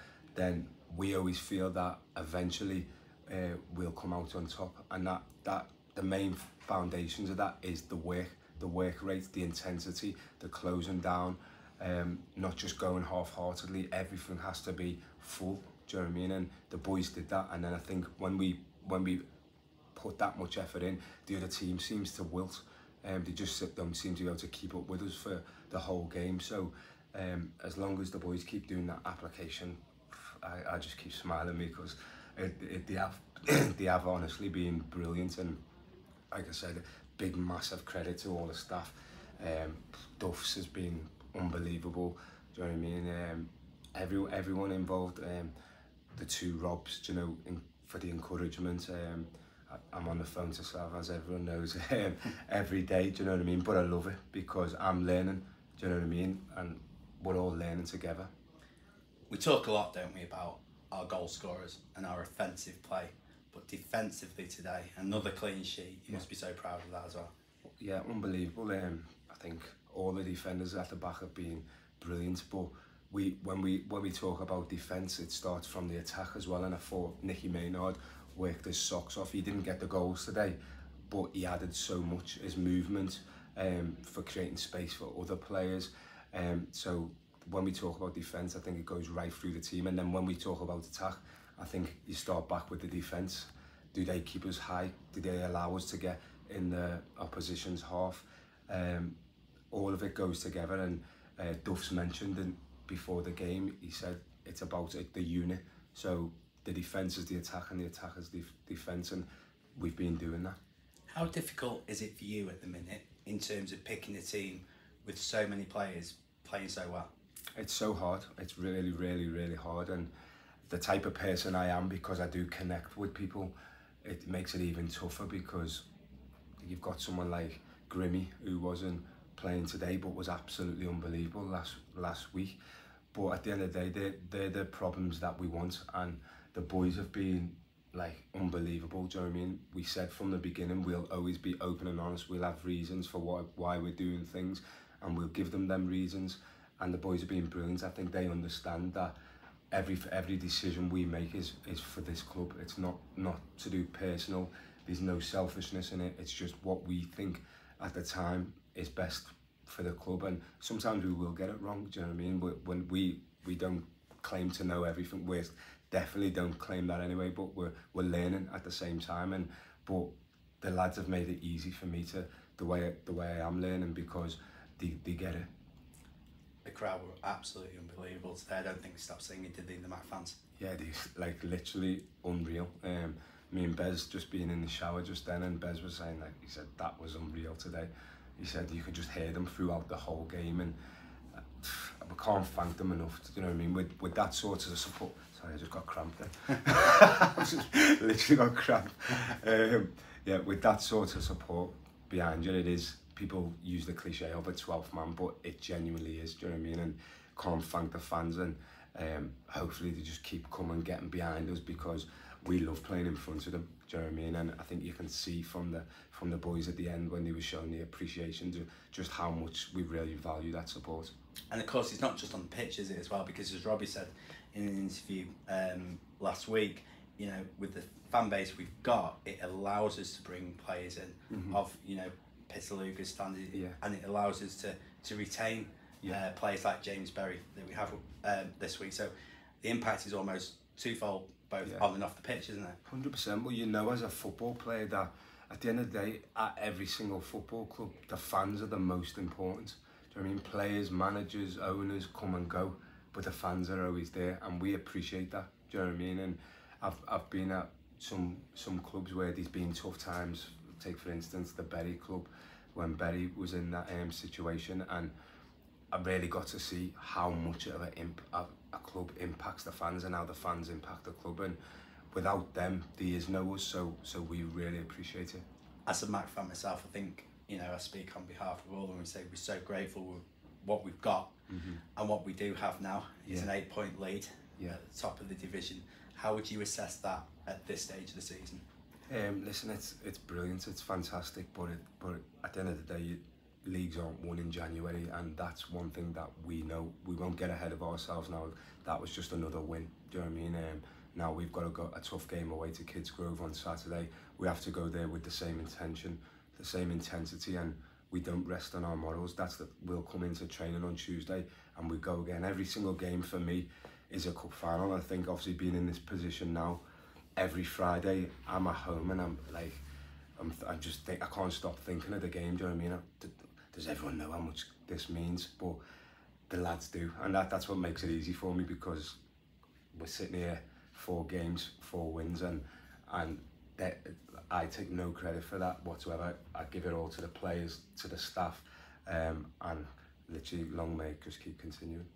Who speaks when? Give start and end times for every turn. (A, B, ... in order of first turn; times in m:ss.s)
0:00.3-0:19.2 A
0:19.9-0:35.6 A
0:36.3-0:45.5 A
0:46.2-0:58.3 A
0:59.3-1:07.3 B
1:07.8-1:20.6 A
1:21.1-1:39.1 A
1:39.7-1:50.6 A
1:51.1-1:57.1 B
1:57.6-2:00.1 A
2:00.7-2:03.5 A
2:04.0-2:05.8 A
2:06.6-2:12.6 A
2:13.1-2:29.1 A
2:29.7-2:55.5 A
2:56.6-3:00.4 B
3:00.6-3:10.7 A
3:11.6-3:41.1 A
3:41.5-3:59.1 B
3:51.3-3:51.6 A
3:59.6-4:02.8 B
4:02.8-4:25.1 A
4:25.9-4:31.6 A
4:32.1-4:35.4 A
4:35.8-4:41.3 B
4:41.5-4:41.8 A
4:42.0-4:48.6 B
4:49.1-5:16.8 A
5:17.4-5:19.8 A
5:20.4-5:25.8 A
5:26.5-5:29.2 A
5:29.9-5:42.1 A